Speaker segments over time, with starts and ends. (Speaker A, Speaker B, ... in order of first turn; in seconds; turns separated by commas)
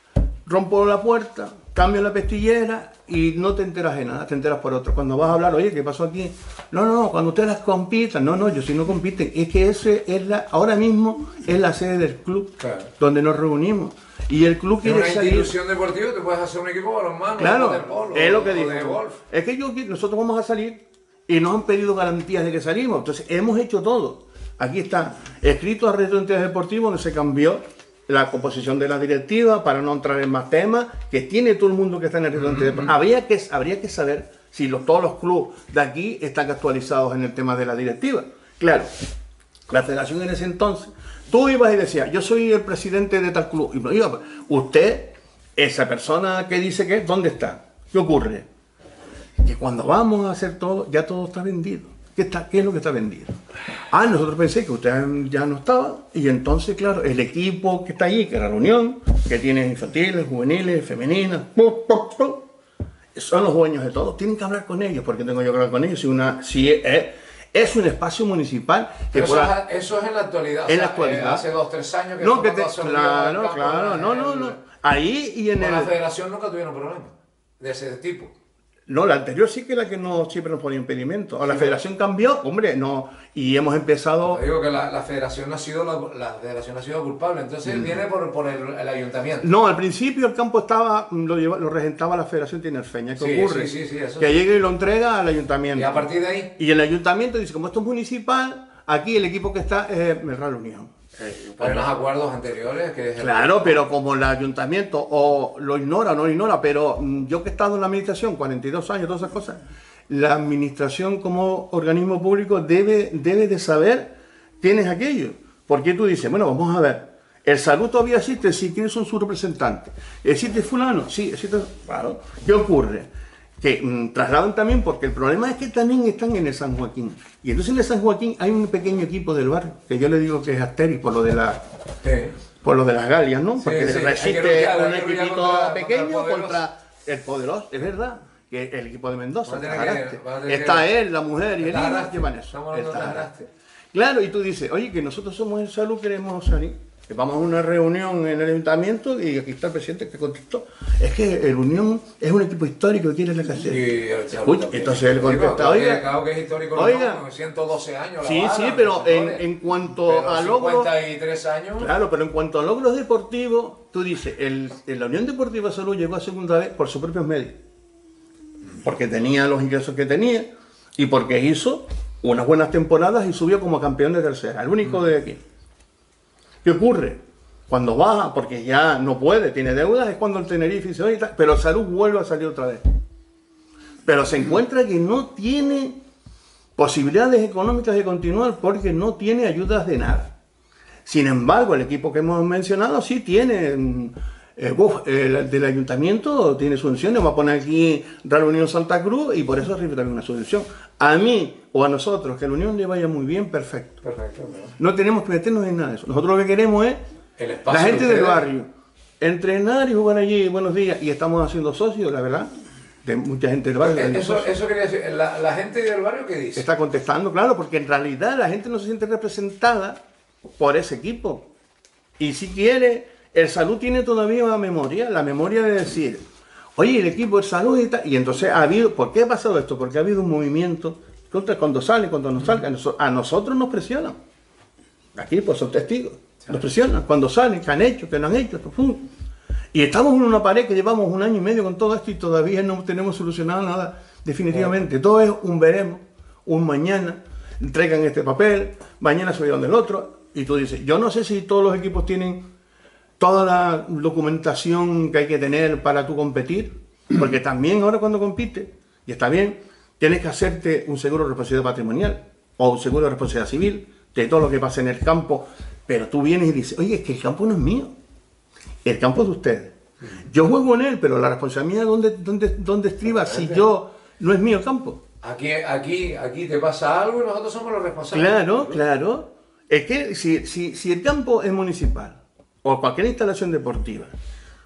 Speaker A: 0.5-15.5, Speaker B: 12.6-12.9, Speaker B: 14.8-19.2, Speaker A: 17.4-38.9, Speaker B: 32.4-32.9, Speaker A: 39.7-48.5, Speaker A: 49.4-53.4, Speaker A: 53.9-62.5, Speaker A: 63.1-69.5, Speaker B: 69.1-74.6, Speaker A: 70.7-71.5, Speaker A: 72.2-75.9, Speaker B: 75.6-78.3, Speaker A: 78.9-84.4, Speaker B: 81.5-81.8, Speaker B: 84.3-89.5, Speaker A: 87.7-88.0, Speaker A: 89.4-101.9, Speaker B: 93.2-94.5, Speaker B: 95.8-96.5, Speaker B: 101.6-103.8, Speaker A: 103.2-123.1, Speaker A: 123.6-131.6, Speaker B: 132.0-132.4, Speaker A: 132.6-143.3, Speaker B: 133.6-136.6, Speaker B: 139.5-140.9, Speaker B: 141.6-143.5, Speaker A: 143.9-156.1, Speaker B: 153.6-159.4, Speaker A: 156.8-157.2, Speaker A: 158.2-160.9, Speaker B: 160.0-161.9, Speaker A: 161.8-167.6, Speaker A: 168.8-175.4, Speaker A: 176.6-182.8, Speaker A: 184.1-186.0, Speaker A: 186.8-190.3, Speaker A: 191.1-204.0, Speaker B: 204.0-204.8, Speaker A: 204.8-207.0, Speaker B: 207.4-208.5, Speaker A: 207.7-208.7, Speaker A: 209.2-212.5, Speaker A: 213.0-214.5, Speaker B: 213.8-216.7, Speaker A: 216.6-220.0, Speaker A: 220.6-221.5, Speaker A: 222.2-226.2, Speaker A: 226.8-234.2, Speaker A: 235.2-239.1, Speaker A: 239.7-252.5, Speaker A: 253.2-267.9, Speaker A: 268.8-275.0, Speaker B: 273.2-273.6, Speaker B: 275.2-278.7, Speaker A: 278.1-284.1